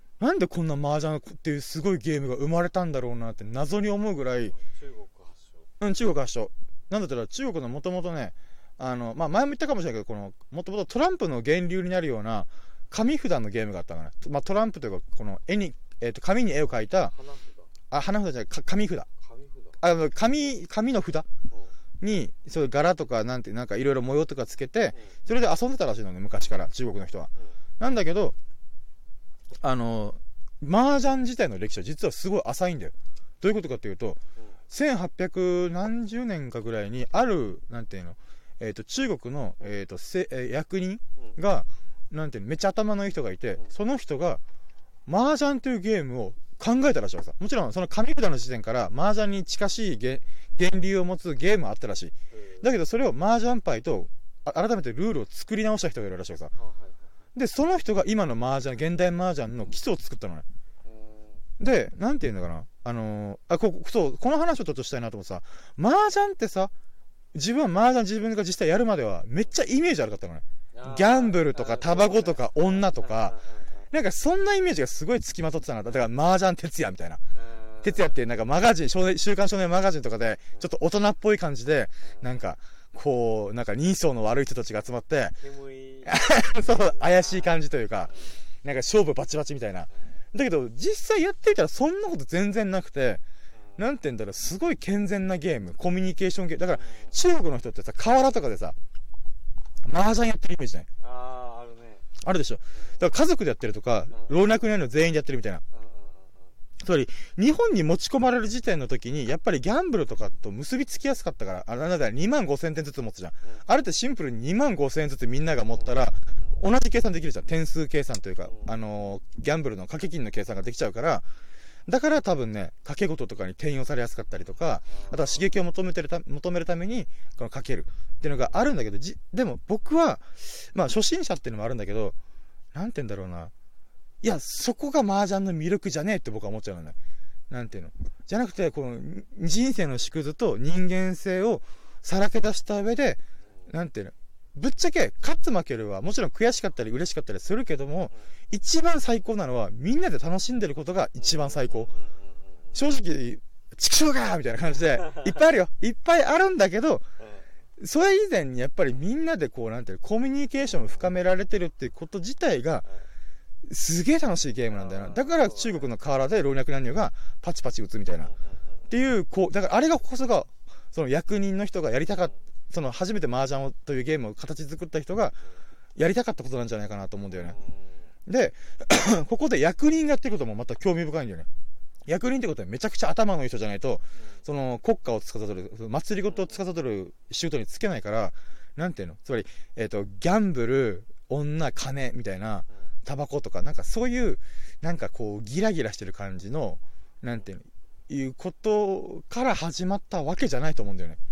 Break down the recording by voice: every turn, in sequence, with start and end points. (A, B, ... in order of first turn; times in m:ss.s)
0:00.2-0:04.5 A
0:04.5-0:05.7 B
0:05.8-0:17.1 A
0:17.0-0:17.7 B
0:17.9-0:19.1 A
0:19.2-0:19.8 B
0:19.8-0:21.3 A
0:22.0-0:27.3 A
0:27.8-0:28.3 A
0:29.6-0:34.2 A
0:34.7-0:44.4 A
0:45.0-0:56.5 A
0:52.3-0:52.7 B
0:56.5-0:57.1 B
0:57.3-1:00.4 A
1:00.8-1:01.4 B
1:01.6-1:06.7 A
1:07.3-1:13.4 A
1:10.7-1:13.9 B
1:13.9-1:17.2 A
1:17.3-1:18.2 B
1:17.8-1:25.4 A
1:22.0-1:22.3 B
1:25.4-1:28.4 B
1:26.0-1:28.1 A
1:28.6-1:33.2 A
1:29.9-1:30.2 B
1:33.5-1:33.8 B
1:33.8-1:38.7 A
1:36.7-1:37.2 B
1:39.8-1:40.9 A
1:41.0-1:42.1 B
1:42.2-1:45.6 A
1:42.8-1:43.0 B
1:44.1-1:44.4 B
1:45.7-1:46.5 B
1:46.8-2:01.2 A
1:55.7-1:56.6 B
1:58.5-1:58.8 B
2:01.9-2:12.1 A
2:04.9-2:05.5 B
2:12.7-2:13.5 A
2:14.2-2:17.0 A
2:17.5-2:31.9 A
2:31.2-2:32.9 B
2:32.7-2:37.0 A
2:37.2-2:37.5 B
2:37.8-2:42.8 A
2:40.7-2:41.1 B
2:43.6-2:48.3 A
2:44.7-2:45.9 B
2:48.2-2:48.9 B
2:48.9-2:55.4 A
2:56.0-2:57.6 A
2:57.3-2:58.1 B
2:58.3-3:01.5 A
3:02.0-3:21.2 A
3:04.1-3:04.4 B
3:06.3-3:06.6 B